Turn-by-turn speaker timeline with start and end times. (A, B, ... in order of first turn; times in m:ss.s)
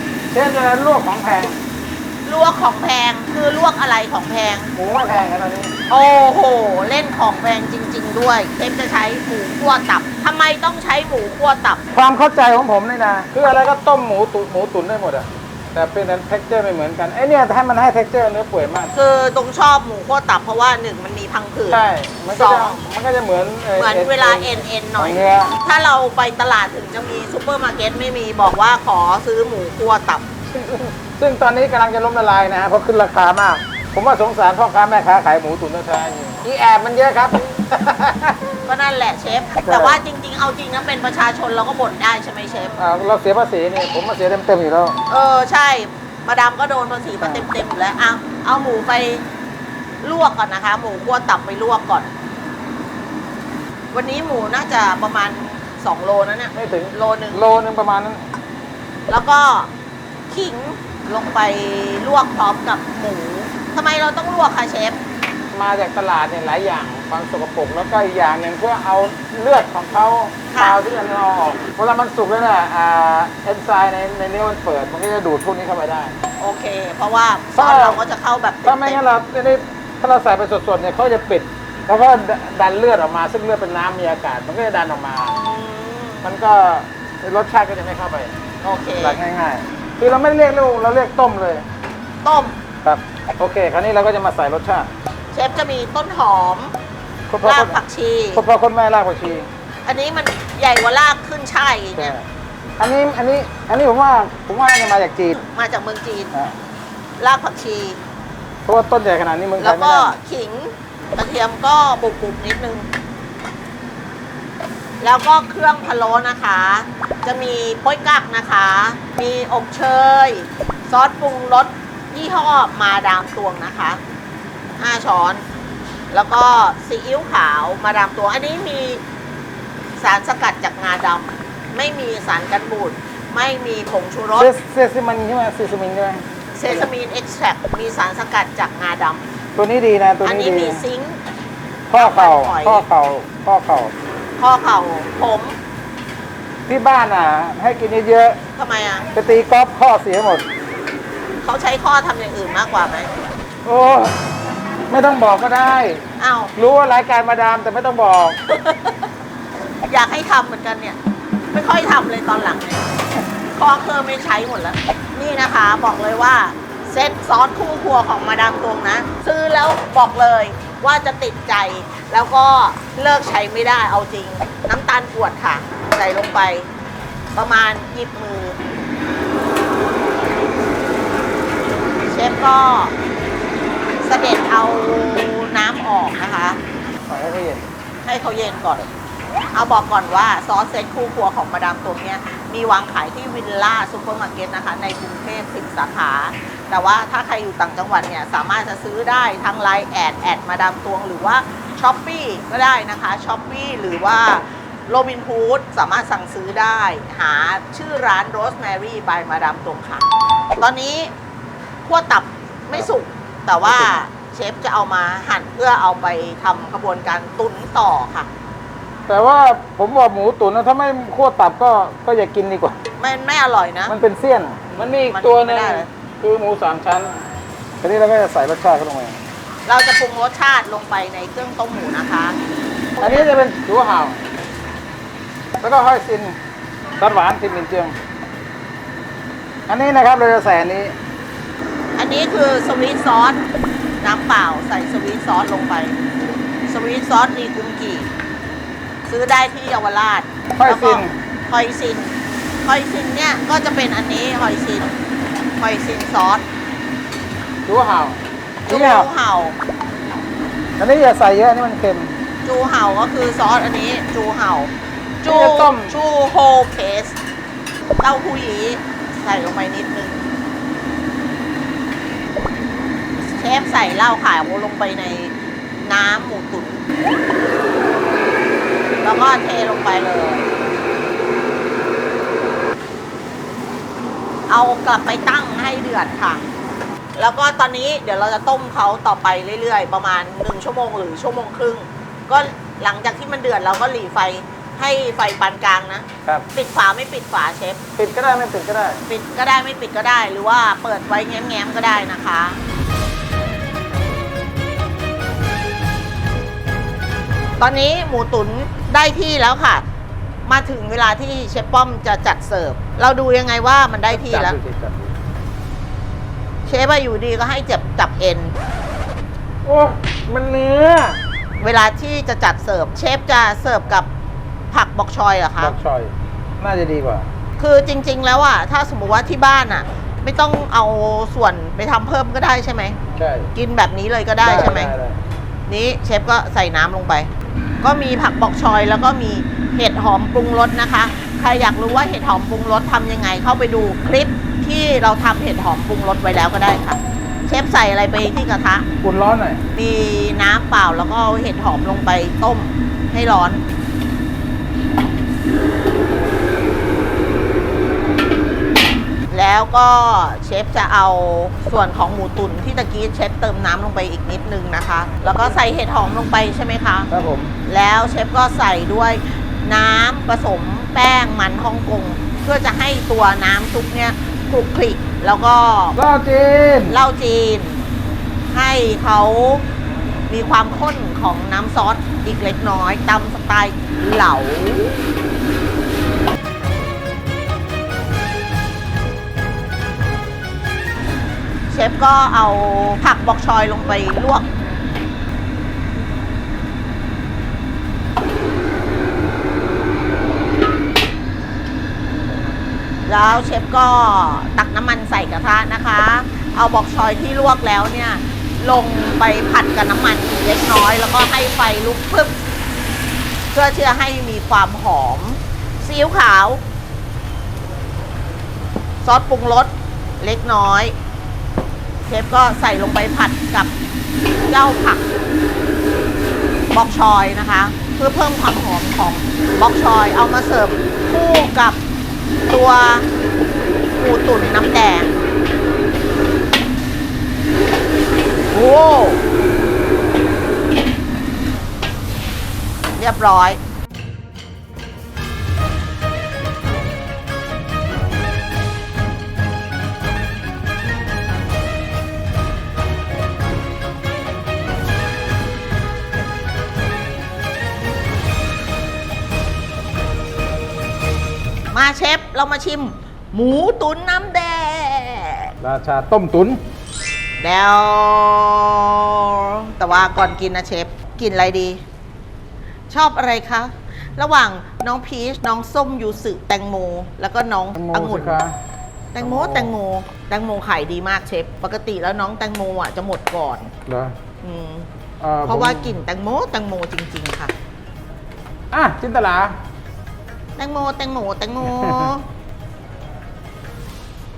0:00.3-0:01.6 A
0:02.2-0:04.7 B
0:04.8-0:05.7 A
0:05.9-0:11.8 B
0:11.9-0:18.9 A
0:18.9-0:22.8 B
0:21.7-0:25.6 A
0:23.8-0:30.3 B
0:30.5-0:38.4 A
0:38.7-0:42.8 B
0:39.6-0:40.0 A
0:42.8-0:45.0 A
0:45.1-0:49.2 B
0:47.2-0:47.5 A
0:50.0-0:52.1 B
0:53.9-0:57.5 B
0:56.6-0:58.2 A
0:59.1-0:59.7 B
1:00.3-1:05.0 B
1:05.5-1:16.2 A
1:10.5-1:10.8 B
1:16.4-1:19.0 B
1:17.6-1:18.1 A
1:18.6-1:25.3 A
1:25.3-1:26.3 B
1:26.2-1:28.4 A
1:28.6-1:29.2 B
1:29.0-1:31.7 A
1:32.2-1:32.6 B
1:32.8-1:34.9 A
1:35.3-1:36.8 B
1:37.3-1:37.8 A
1:37.4-1:38.4 B
1:38.3-1:39.5 A
1:39.8-1:42.2 B
1:42.0-1:42.3 A
1:42.8-1:45.4 A
1:45.3-1:46.3 B
1:47.2-1:48.0 B
1:48.6-1:50.1 A
1:49.6-1:52.9 B
1:55.0-2:04.0 B
2:04.8-2:05.4 B
2:06.1-2:09.0 B
2:10.0-2:14.5 B
2:14.4-2:16.9 A
2:16.6-2:19.2 B
2:19.6-2:20.8 A
2:20.2-2:21.2 B
2:21.9-2:23.9 A
2:21.9-2:22.9 B
2:24.4-2:25.6 B
2:26.7-2:28.4 A
2:28.6-2:29.1 B
2:29.1-2:30.4 A
2:31.4-2:33.1 B
2:33.6-2:34.2 A
2:34.9-2:36.0 A
2:36.2-2:36.5 B
2:36.6-2:38.4 A
2:38.5-2:39.1 B
2:39.9-2:41.0 B
2:41.5-2:56.7 B
2:57.3-2:58.6 B
3:02.1-3:02.9 B
3:04.0-3:06.6 B
3:07.1-3:07.7 A
3:08.0-3:08.9 B
3:09.5-3:31.1 B
3:31.8-3:38.3 B
3:33.6-3:34.0 A
3:39.1-3:42.8 A
3:43.0-3:44.0 B
3:43.9-3:47.2 A
3:44.7-3:45.9 B
3:47.8-3:49.2 A
3:49.7-3:52.4 B
3:53.0-3:53.3 B
3:53.0-3:54.2 A
3:55.6-3:56.4 A
3:57.0-3:58.0 A
3:59.7-4:01.0 A
4:02.0-4:03.4 B
4:04.0-4:06.0 B
4:06.7-4:08.1 B
4:09.1-4:12.1 B
4:10.6-4:11.2 A
4:12.6-4:14.9 B
4:15.6-4:16.4 B
4:17.7-4:19.1 A
4:18.7-4:19.6 B
4:20.8-4:22.1 A
4:22.4-4:27.2 B
4:25.2-4:26.0 A
4:28.0-4:30.2 B
4:33.2-4:36.8 B
4:39.0-4:40.5 B
4:44.5-4:46.4 B
4:47.2-4:57.8 B
4:58.0-4:59.0 A
4:59.1-5:02.6 B
5:07.6-5:09.8 B
5:10.5-5:14.6 B
5:14.1-5:15.2 A
5:16.6-5:18.5 B
5:19.6-5:21.2 A
5:21.6-5:24.1 B
5:24.7-5:25.8 B
5:25.6-5:27.3 A
5:27.6-5:33.0 B
5:33.2-5:33.5 A
5:33.6-5:34.9 B
5:34.4-5:35.2 A
5:35.7-5:37.3 B
5:37.8-5:48.9 B
5:49.0-5:49.6 A
5:49.7-5:53.6 B
5:59.3-6:07.1 B
6:07.1-6:07.5 A
6:07.6-6:16.0 B
6:16.0-6:17.0 A
6:16.9-6:17.8 B
6:18.5-6:19.7 B
6:20.3-6:25.0 B
6:31.7-6:34.5 B
6:43.1-6:52.4 B
6:53.5-6:56.6 B
6:59.0-7:00.9 B
7:02.1-7:03.7 B
7:04.5-7:05.1 B
7:06.7-7:11.8 B
7:12.5-7:13.1 B
7:14.0-7:15.2 B
7:18.5-7:19.2 B
7:23.0-7:23.6 B
7:41.7-7:45.6 B
7:45.6-7:46.6 A
7:47.4-7:51.8 B
7:52.9-7:58.4 B
7:57.8-7:58.6 A
7:59.1-8:03.7 B
7:59.2-7:59.8 A
8:03.9-8:04.2 A
8:04.4-8:04.9 B
8:05.2-8:06.0 A
8:05.4-8:07.5 B
8:08.7-8:09.6 A
8:10.6-8:12.2 B
8:11.8-8:12.1 A